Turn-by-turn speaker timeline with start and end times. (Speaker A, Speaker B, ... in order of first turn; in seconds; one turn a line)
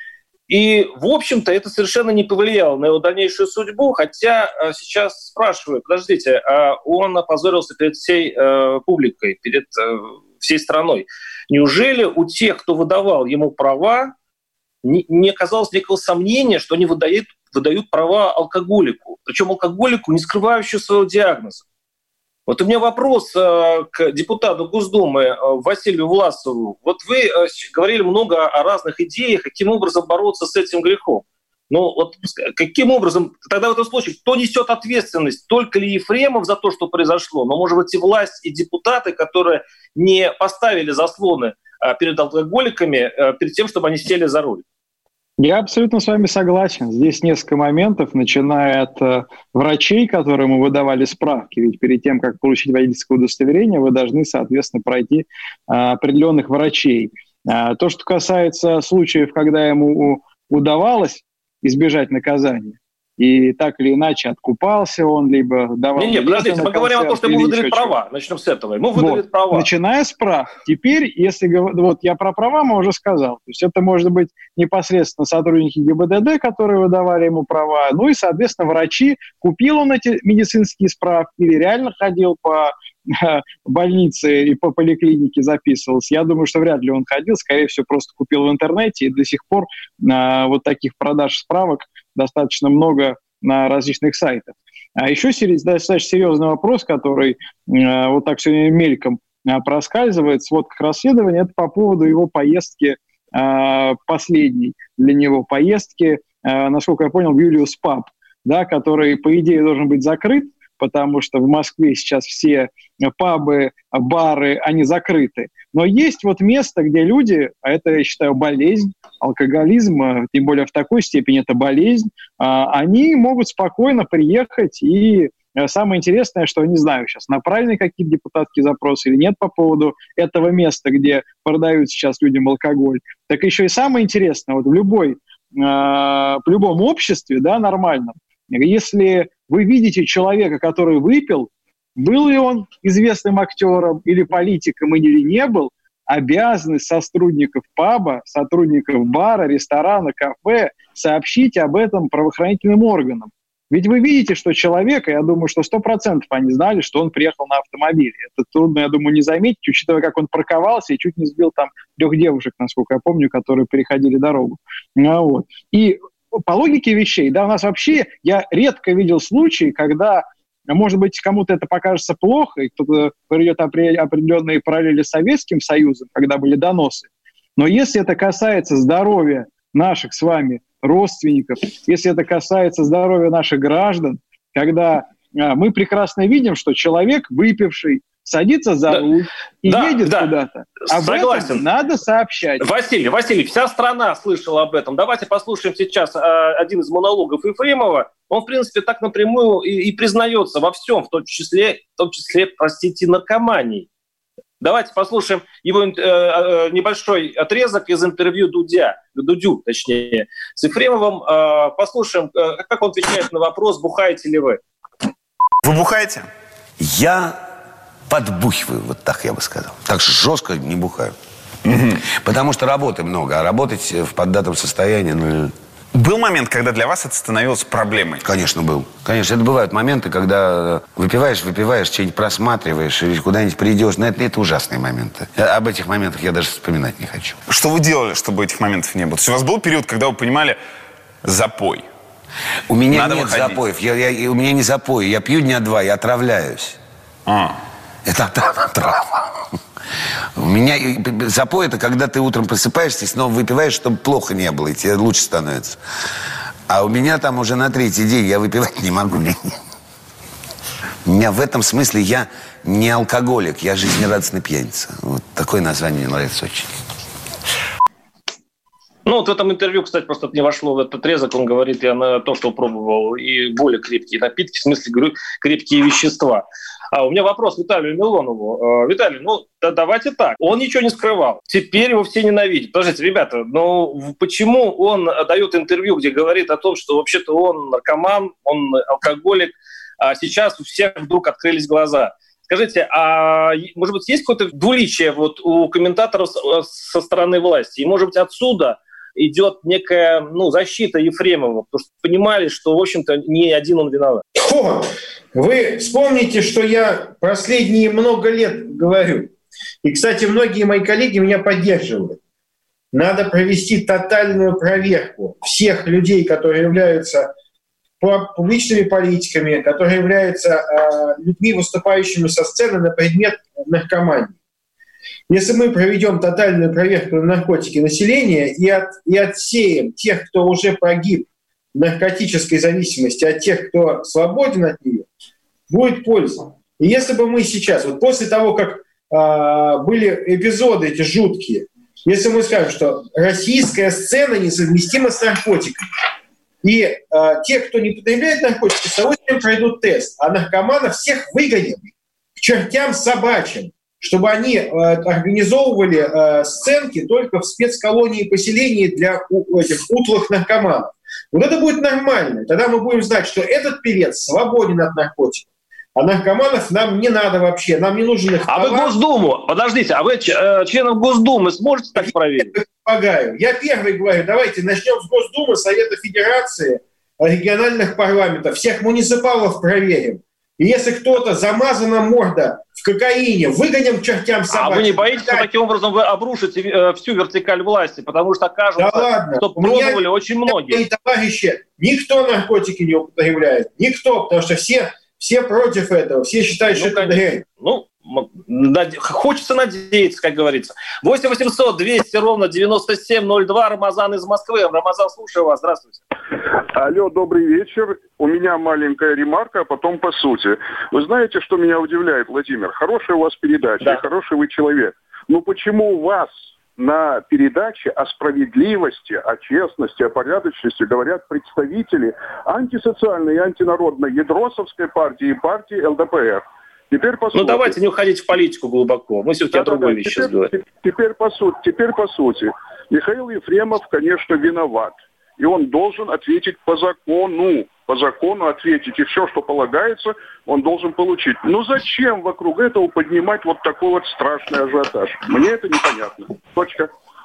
Speaker A: 0.5-14.1
Speaker A: 14.8-21.6
Speaker A: 22.5-44.6
Speaker B: 45.4-68.0
Speaker A: 66.0-69.7
Speaker B: 69.0-192.6
Speaker A: 189.7-190.3
Speaker A: 190.8-191.6
Speaker A: 192.6-203.9
Speaker A: 204.6-214.6
Speaker C: 215.6-216.3
Speaker D: 216.8-217.4
Speaker D: 218.1-221.1
Speaker D: 222.0-225.5
Speaker C: 225.9-228.2
Speaker D: 228.2-237.4
Speaker C: 237.5-240.6
Speaker C: 241.2-241.9
Speaker D: 242.7-246.8
Speaker C: 242.9-243.6
Speaker C: 247.2-247.5
Speaker D: 248.1-249.1
Speaker D: 250.4-255.8
Speaker D: 256.7-259.6
Speaker D: 261.1-266.7
Speaker A: 269.1-304.2
Speaker E: 304.3-309.3
Speaker E: 309.8-312.2
Speaker E: 312.9-317.3
Speaker E: 318.0-324.3
Speaker E: 325.3-335.1
Speaker E: 335.7-345.9
Speaker E: 346.6-368.9
Speaker A: 368.5-372.5
Speaker E: 372.0-385.5
Speaker A: 384.5-390.8
Speaker E: 388.8-397.4
Speaker A: 396.7-406.0
Speaker F: 406.7-427.8
Speaker A: 427.3-430.5
Speaker F: 429.5-446.9